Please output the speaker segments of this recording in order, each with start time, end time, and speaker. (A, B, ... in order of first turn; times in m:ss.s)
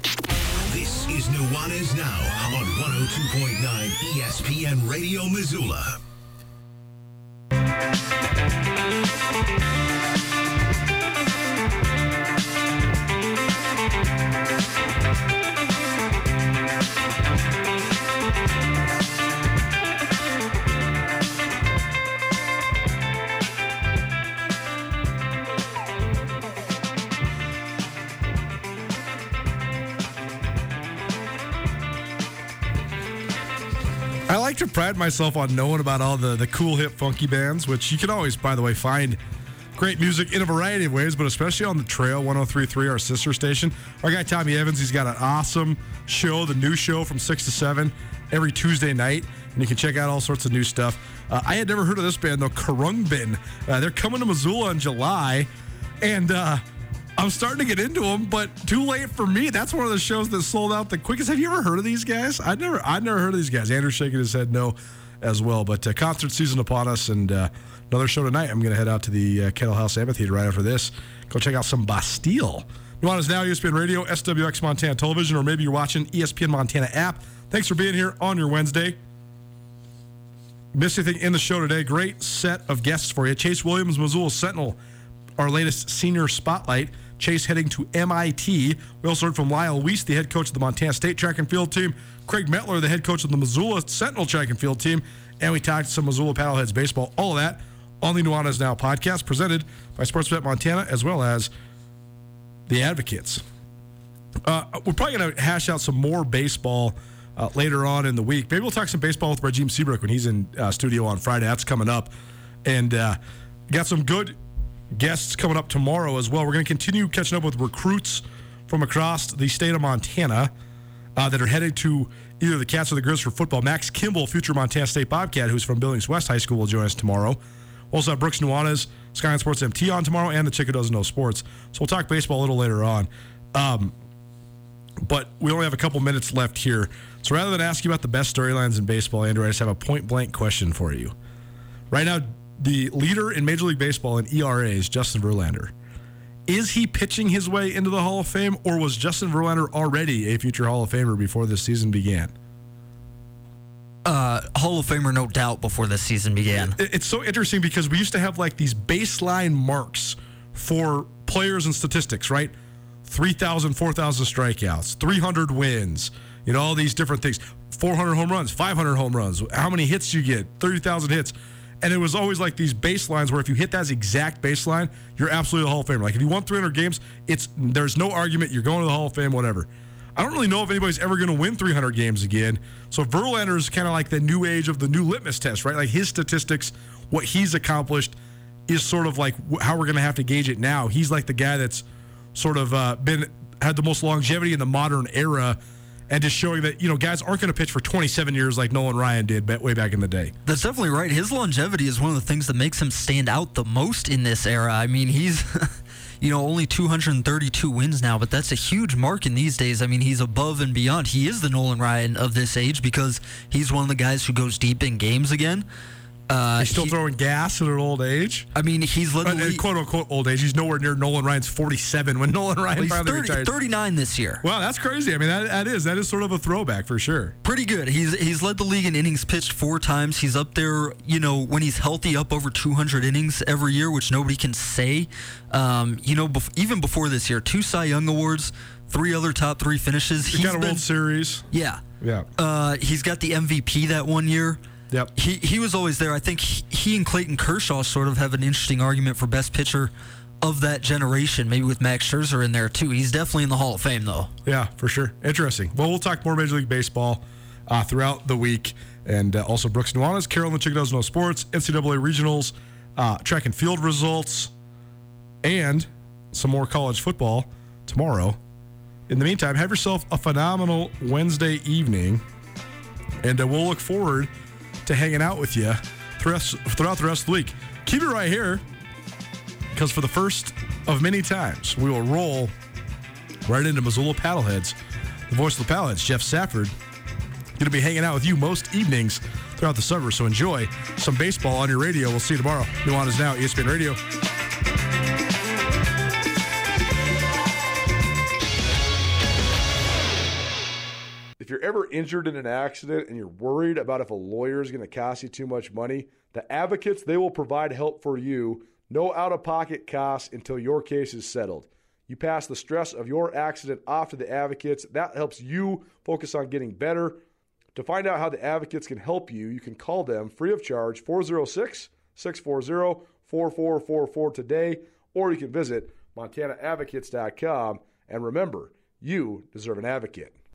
0:00.7-0:06.0 A
0:34.3-0:39.2 B
0:39.8-0:55.5 B
0:56.0-0:56.6 B
0:57.2-1:19.0 B
1:20.7-1:24.8 B
1:25.4-1:41.5 B
1:42.7-1:43.4 B
1:44.4-1:52.1 B
1:52.6-1:53.2 B
1:53.7-1:54.4 B
1:54.9-2:00.5 B
2:01.2-2:07.4 B
2:07.9-2:13.9 B
2:15.0-2:21.1 B
2:21.9-2:25.7 B
2:26.5-2:32.3 B
2:34.0-2:36.7 C
2:36.5-2:42.5 B
2:43.0-3:08.2 B
3:08.7-3:15.6 B
3:16.1-3:20.3 B
3:20.4-3:35.6 C
3:36.3-3:36.9 C
3:36.6-3:38.5 B
3:38.6-3:39.6 C
3:39.2-3:43.5 B
3:42.8-3:44.4 C
3:44.4-3:47.3 B
3:47.4-4:00.8 C
4:00.2-4:01.4 B
4:01.5-4:01.8 C
4:02.0-4:02.3 B
4:02.4-4:04.6 C
4:05.2-4:14.3 C
4:14.4-4:24.5 B
4:25.4-4:28.4 B
4:29.1-4:32.2 B
4:33.2-4:34.3 B
4:34.8-4:38.6 B
4:39.7-4:42.5 B
4:43.4-4:44.7 B
4:45.3-4:46.7 B
4:47.6-4:54.0 B
5:01.4-5:17.2 B
5:17.7-5:30.3 B